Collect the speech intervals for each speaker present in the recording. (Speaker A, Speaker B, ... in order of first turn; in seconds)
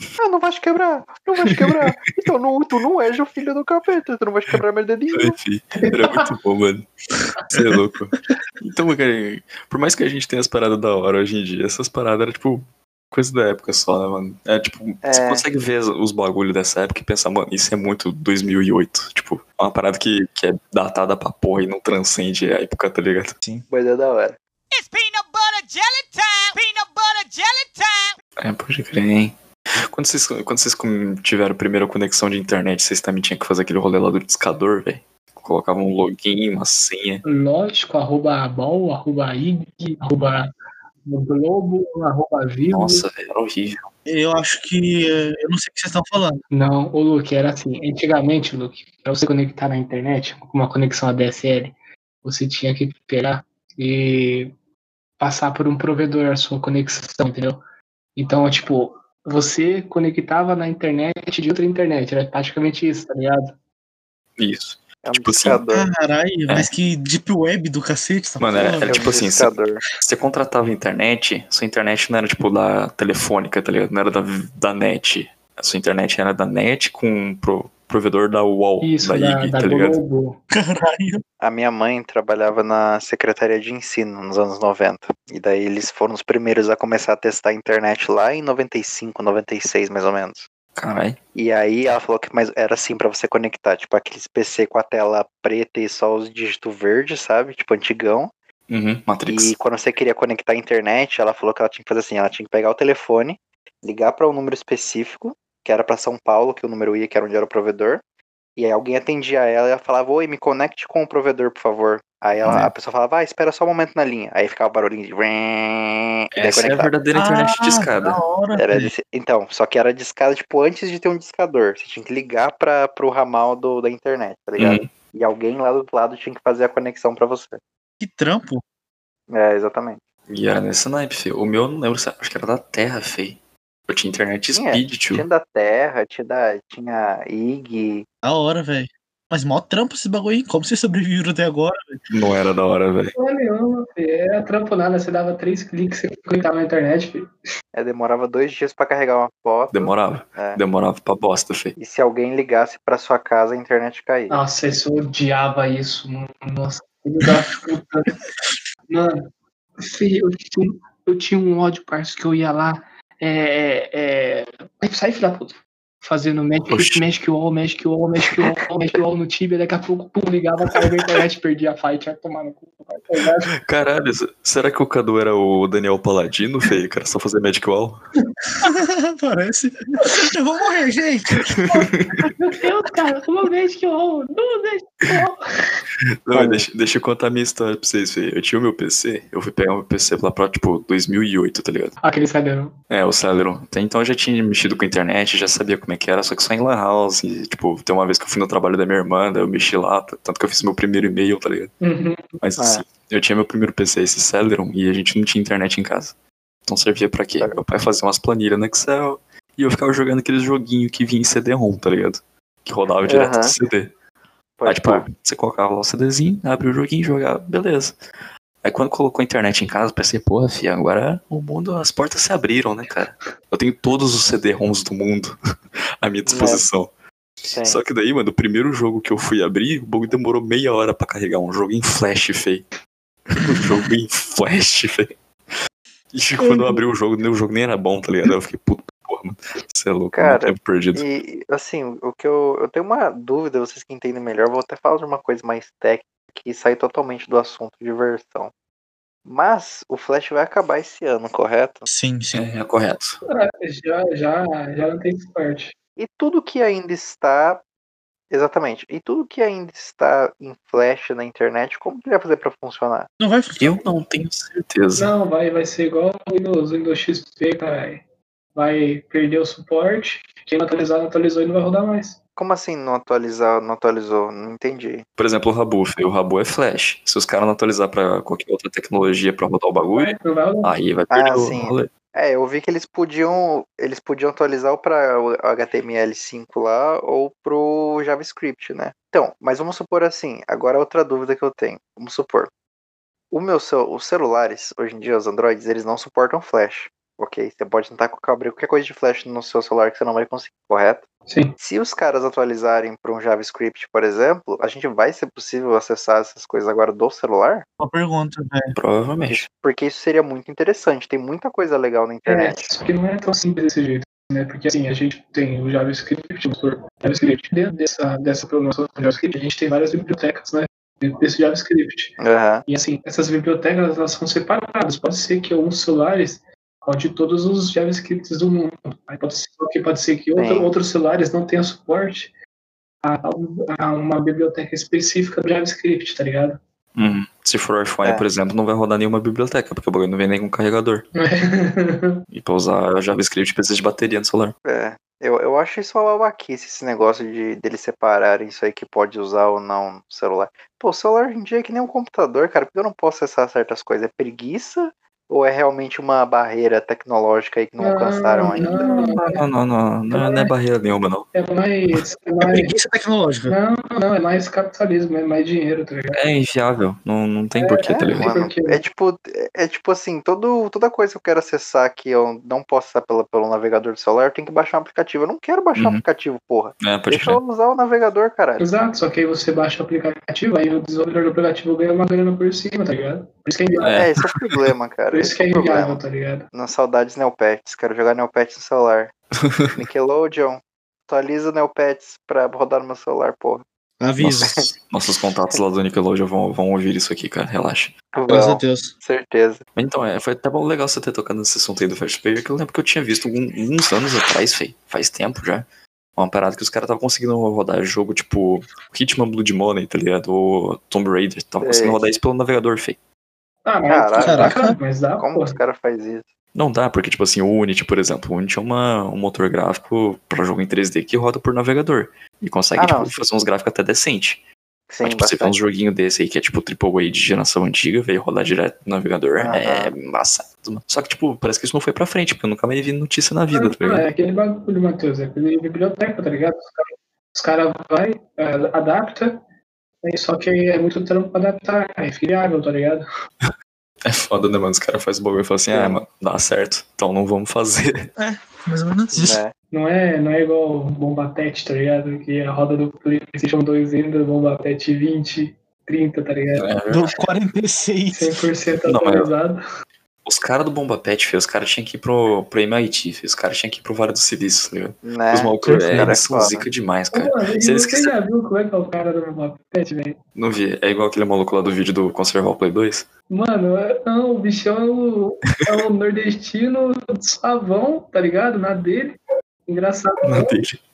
Speaker A: 0.2-5.4, 15.0-15.5, 23.7-24.4, 65.0-65.9, 68.8-69.8, 81.4-90.5, 91.3-98.3, 99.3-108.0, 108.6-116.9, 118.6-127.6, 129.3-130.0, 134.5-138.1, 147.7-150.6, 151.8-154.4, 186.3-186.7, 202.6-202.8, 213.1-213.6, 214.6-215.1, 226.3-226.7, 227.5-227.8, 240.1-248.5, 249.3-251.9, 256.0-257.6, 258.3-263.1, 272.4-275.1, 281.1-292.5, 293.3-301.0, 301.6-307.6, 309.3-312.7, 322.2-322.6, 330.4-330.7, 344.6-358.7, 367.9-378.6, 383.9-386.0, 386.5-389.1, 389.8-393.6, 398.1-399.6, 411.6-412.0, 413.9-414.6, 415.2-416.2, 422.8-423.2, 424.9-425.6, 429.4-429.9, 445.7-446.0, 449.1-449.5, 465.0-466.7
Speaker B: 5.1-23.4, 28.4-37.2, 42.7-43.9, 64.4-65.6, 68.4-80.0, 90.8-91.2, 98.7-99.5, 116.3-118.2, 124.6-124.9, 130.3-135.3, 142.1-143.1, 149.7-151.8, 166.7-167.0, 173.6-178.0, 181.4-182.3, 186.2-192.0, 192.9-201.7, 202.4-206.1, 206.7-213.9, 214.7-218.0, 218.6-225.4, 226.0-226.9, 227.6-232.7, 233.3-235.2, 236.1-241.0, 252.3-253.2, 263.6-265.1, 275.2-281.9, 308.8-309.4, 337.0-341.1, 342.3-344.6, 358.6-361.3, 366.1-368.3, 375.8-376.0, 376.8-377.4, 383.8-384.6, 389.4-389.7, 394.2-397.9, 399.8-405.6, 406.2-413.0, 416.6-424.4, 425.0-434.1, 444.1-448.1, 456.6-457.1, 458.9-459.3, 460.2-468.1, 470.4-473.1, 480.2-480.8
Speaker C: 5.8-6.2, 37.2-40.5, 41.1-43.1, 46.5-54.5, 55.2-57.6, 58.2-63.5, 78.8-80.4, 143.2-147.3, 154.3-158.2, 158.9-173.5, 181.7-185.8, 192.0-192.8, 201.8-202.3, 253.3-255.8, 265.0-268.0, 268.6-272.2, 279.9-280.8, 301.3-301.6, 312.3-332.3, 333.0-336.6, 341.1-342.2, 357.8-359.4, 360.1-360.5, 361.3-362.8, 363.5-366.2, 367.6-368.8, 378.6-384.0, 385.1-386.5, 413.7-415.6, 433.5-439.4, 440.0-443.0, 449.7-456.7, 458.1-459.6, 467.1-470.2, 473.3-480.6
Speaker D: 24.7-28.1
Speaker E: 44.1-46.4, 65.7-69.1, 80.5-81.2, 117.2-118.9, 128.0-128.6, 138.2-142.0, 178.6-181.5, 236.4-236.8, 251.9-252.4, 263.2-263.8, 307.8-308.8, 362.4-363.6, 394.0-394.6, 398.3-398.9, 414.2-414.8, 448.2-449.4, 456.9-458.4, 465.6-466.2